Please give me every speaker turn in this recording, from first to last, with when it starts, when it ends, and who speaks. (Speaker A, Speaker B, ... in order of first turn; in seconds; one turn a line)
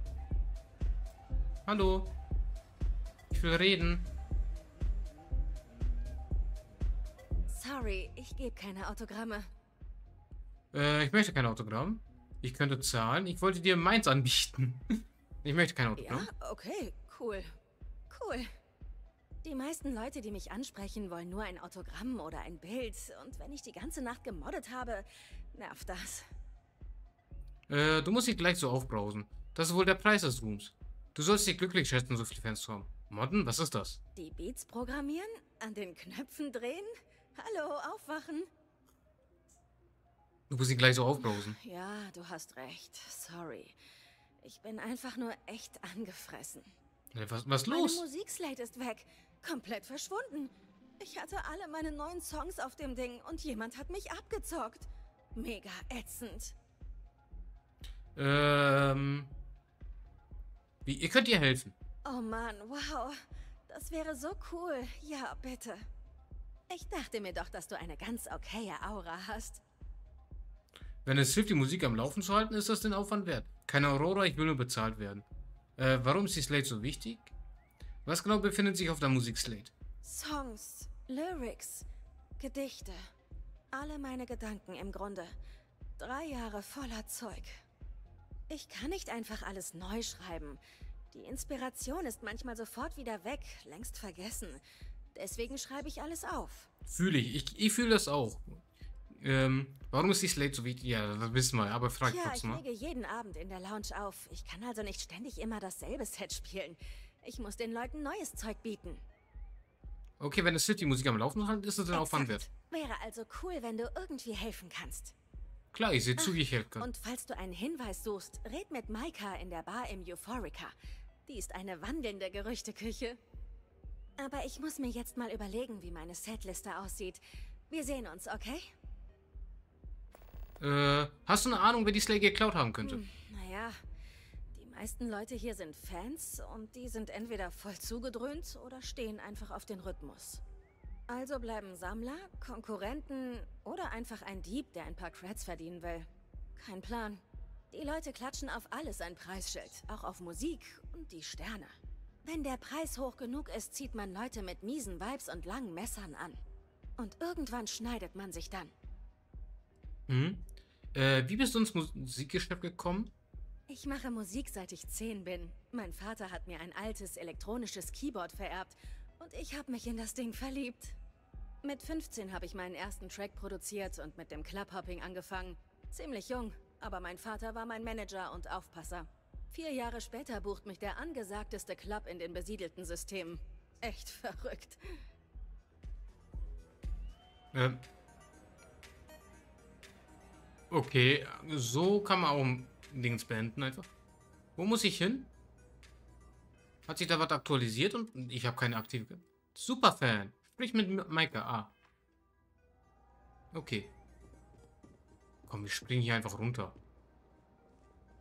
Speaker A: 1.6-2.1
Speaker A: 3.3-4.1
Speaker B: 7.5-9.5
Speaker A: 10.7-16.3
Speaker B: 16.0-17.6
Speaker B: 18.1-18.5
Speaker B: 19.4-26.3
Speaker A: 27.7-34.0
Speaker B: 34.1-38.5
Speaker A: 40.5-41.6
Speaker B: 41.3-43.8
Speaker B: 44.4-46.7
Speaker A: 47.1-48.0
Speaker B: 47.7-56.5
Speaker A: 58.1-59.3
Speaker A: 60.8-61.7
Speaker B: 62.0-65.9
Speaker B: 66.7-69.6
Speaker A: 71.0-75.2
Speaker A: 75.8-77.3
Speaker A: 78.0-79.7
Speaker B: 80.0-81.9
Speaker B: 82.4-83.1
Speaker B: 83.7-85.3
Speaker B: 86.0-87.6
Speaker B: 88.5-94.6
Speaker B: 95.1-96.7
Speaker A: 96.9-102.6
Speaker B: 102.0-109.0
Speaker A: 110.2-112.5
Speaker B: 111.9-115.1
Speaker A: 115.7-116.9
Speaker B: 116.2-120.7
Speaker B: 121.2-123.2
Speaker B: 124.2-128.7
Speaker A: 130.6-133.0
Speaker B: 132.8-133.8
Speaker B: 134.5-140.4
Speaker B: 141.1-156.4
Speaker B: 157.0-158.7
Speaker A: 160.1-160.4
Speaker A: 160.9-163.1
Speaker B: 163.7-171.0
Speaker B: 171.6-184.8
Speaker A: 187.5-187.8
Speaker A: 190.7-193.9
Speaker A: 194.6-195.3
Speaker A: 196.9-201.7
Speaker A: 203.5-203.9
Speaker A: 205.4-206.8